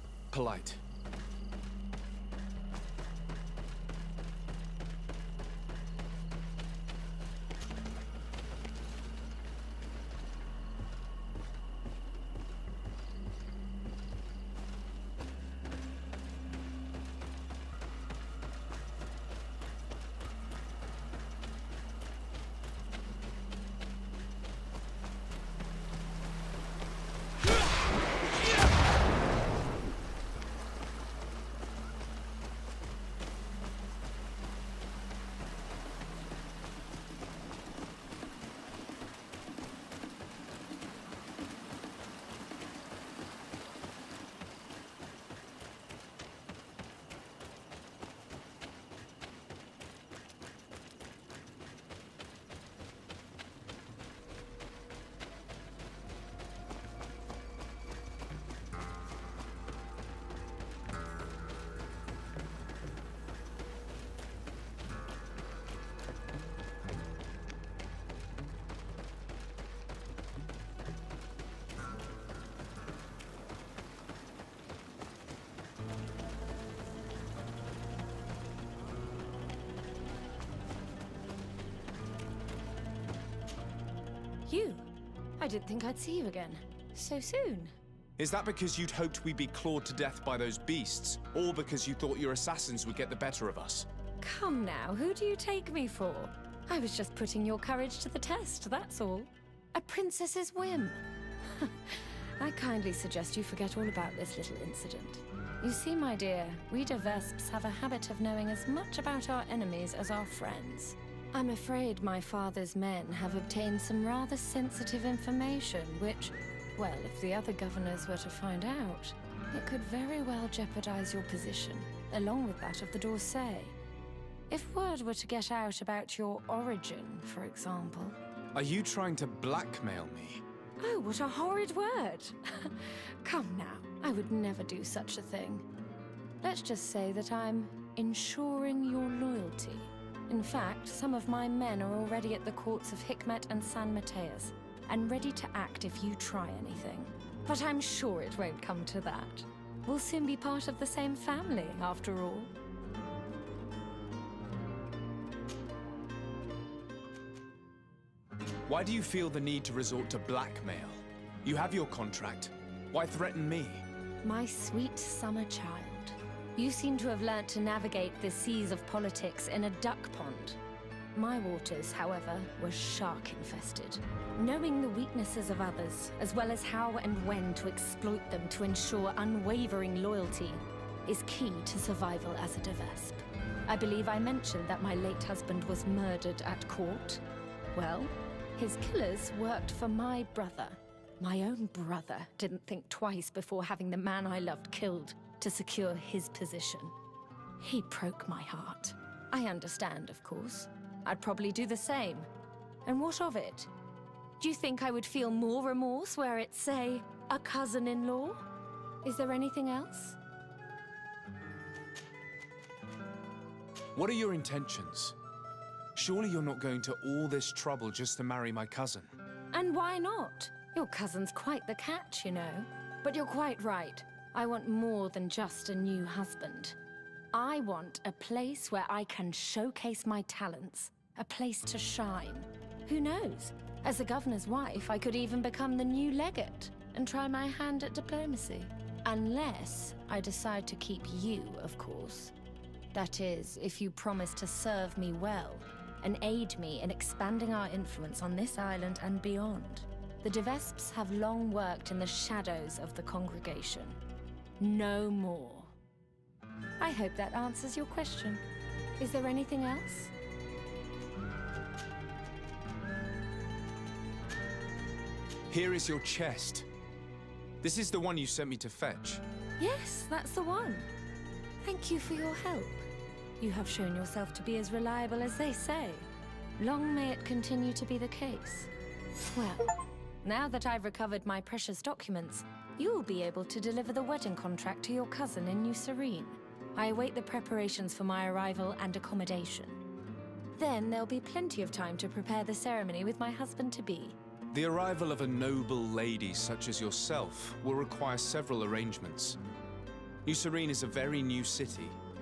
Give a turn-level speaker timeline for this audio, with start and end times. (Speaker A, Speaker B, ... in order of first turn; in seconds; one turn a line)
Speaker A: 0.3-0.8
Speaker B: 84.5-87.7
Speaker A: 88.2-93.9
Speaker B: 94.2-123.7
Speaker B: 124.5-128.2
Speaker A: 128.5-130.4
Speaker B: 130.8-135.7
Speaker B: 136.4-152.5
Speaker A: 158.7-163.8
Speaker B: 164.2-170.6
Speaker B: 171.1-187.2
Speaker B: 187.7-196.9
Speaker B: 197.6-202.3
Speaker B: 202.8-203.7
Speaker B: 204.4-208.4
Speaker B: 209.0-210.2
Speaker A: 213.9-215.2
Speaker A: 215.9-219.1
Speaker B: 219.5-226.8
Speaker B: 227.3-242.3
Speaker B: 242.9-254.0
Speaker B: 254.6-255.7
Speaker B: 256.8-258.4
Speaker B: 259.0-260.1
Speaker A: 265.5-266.7
Speaker A: 267.6-269.2
Speaker B: 269.6-270.9
Speaker B: 271.6-272.9
Speaker B: 273.4-276.1
Speaker B: 276.6-278.7
Speaker B: 279.3-279.7
Speaker B: 280.2-289.8
Speaker B: 290.5-294.2
Speaker A: 294.5-299.4
Speaker A: 300.2-302.0